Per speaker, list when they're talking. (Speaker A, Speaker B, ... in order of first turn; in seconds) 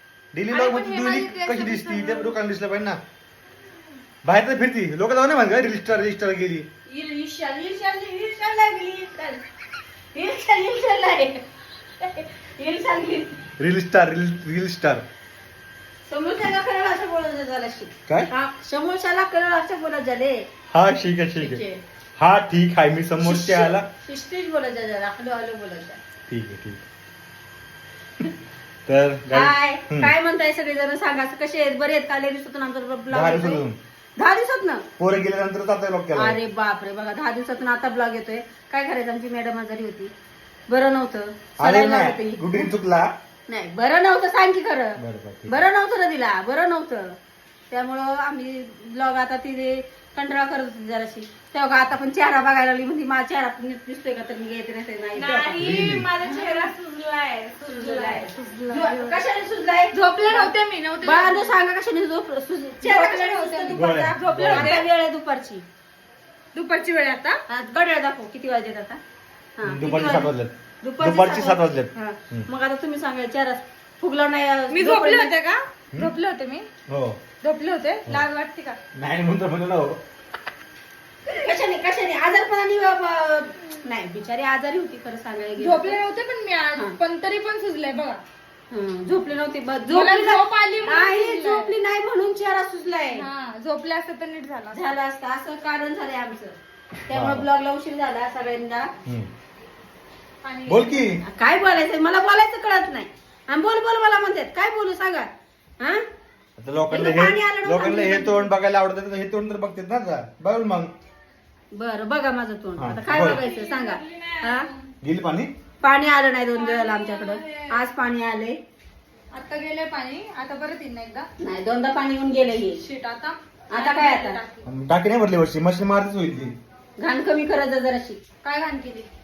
Speaker A: 0.3-3.0, 4.2-6.7, 13.6-15.0, 20.7-21.6, 22.2-23.9, 26.3-26.8, 28.9-30.1, 33.1-33.8, 35.0-36.4, 41.6-43.1, 45.0-45.6, 55.5-56.1, 63.7-64.7, 69.6-72.5, 76.9-77.2, 78.9-80.0, 97.1-97.5, 100.7-101.2, 106.6-110.9, 112.8-113.4, 115.0-115.5, 124.6-126.5
Speaker B: 0.5-2.3, 55.1-59.2, 59.9-61.5, 62.8-64.8, 66.5-67.4, 74.7-76.7, 77.4-78.8, 85.6-88.2, 89.9-91.7, 93.1-94.9, 100.4-101.2, 113.1-114.9, 116.5-117.8, 119.3-121.3, 122.8-124.6, 128.4-129.1
Speaker C: 6.9-9.4, 10.1-11.4, 12.0-13.4, 16.1-20.4, 21.4-21.8, 23.2-26.0, 29.3-33.6, 34.2-34.9, 36.1-40.1, 40.7-42.7, 43.5-47.1, 47.7-55.7, 56.2-56.7, 57.6-65.6, 67.5-69.0, 69.6-75.3, 81.3-86.0, 88.7-93.2, 94.7-96.6, 97.1-98.9, 101.2-105.3, 106.9-108.5, 111.7-114.7, 115.8-118.6, 121.4-122.8, 123.7-124.4, 127.0-128.2